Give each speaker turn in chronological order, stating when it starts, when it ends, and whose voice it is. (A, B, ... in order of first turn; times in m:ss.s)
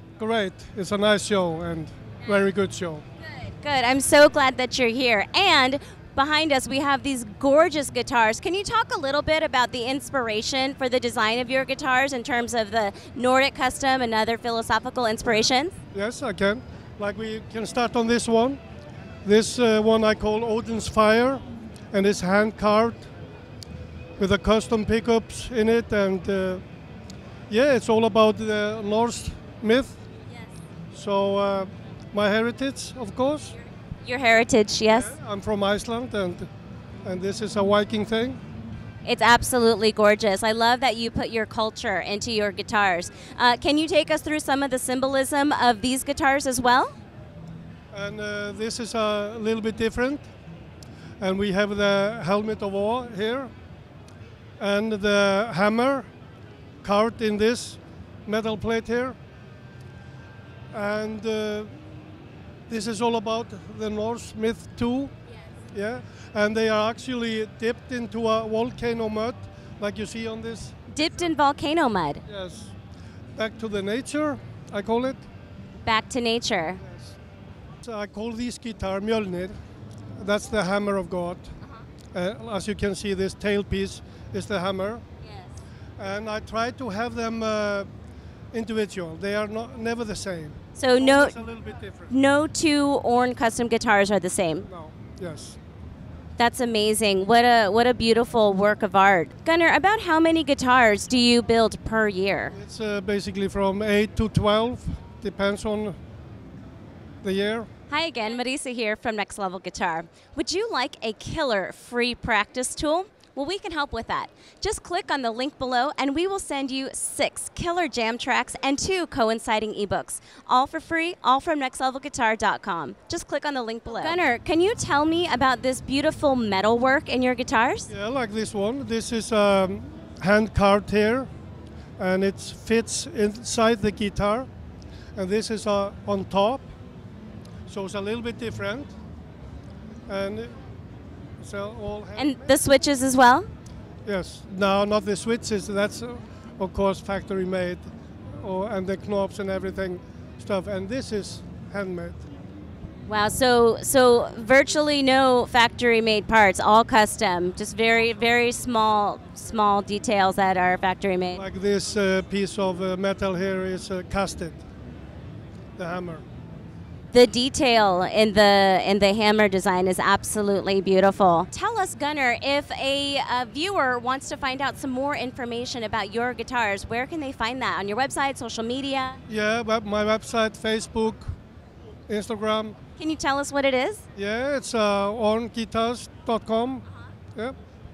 0:00.2-0:03.0 A
0:03.5-0:15.7 B
0:15.9-0:18.6 A
0:19.2-0:23.1 A
0:24.2-0:26.6 A
0:27.5-0:30.0 A
0:30.9-0:33.6 A
0:34.0-0:35.1 B
0:34.9-0:36.5 A
0:37.0-0:38.4 A
0:39.0-0:46.9 B
0:47.9-0:50.3 A
0:51.2-0:53.5 A
0:54.6-0:56.1 A
0:56.8-0:59.2 A
1:00.7-1:01.7 A
1:02.7-1:05.1 A
1:05.7-1:10.8 A
1:10.9-1:12.2 B
1:12.2-1:12.7 A
1:13.4-1:15.2 A
1:15.8-1:16.8 B
1:16.8-1:17.2 A
1:17.8-1:19.5 A
1:20.2-1:21.5 A
1:22.1-1:25.0 A
1:26.0-1:27.9 A
1:28.5-1:32.1 A
1:30.8-1:31.4 B
1:32.1-1:34.7 B
1:34.7-1:35.6 A
1:36.4-1:42.6 B
1:42.5-1:46.0 A
1:47.2-1:47.7 A
1:47.9-2:07.9 B
2:07.9-2:11.3 A
2:12.0-2:14.5 A
2:15.2-2:16.6 A
2:17.7-2:18.9 A
2:20.1-2:20.5 A
2:21.4-2:22.6 A
2:22.2-2:23.5 B
2:24.0-2:32.2 A
2:33.1-2:41.4 B
2:41.3-2:44.6 A
2:45.8-2:46.2 A
2:47.1-2:59.2 B
2:59.3-3:01.3 A
3:02.1-3:02.8 A
3:03.0-3:04.0 B
3:04.1-3:07.6 A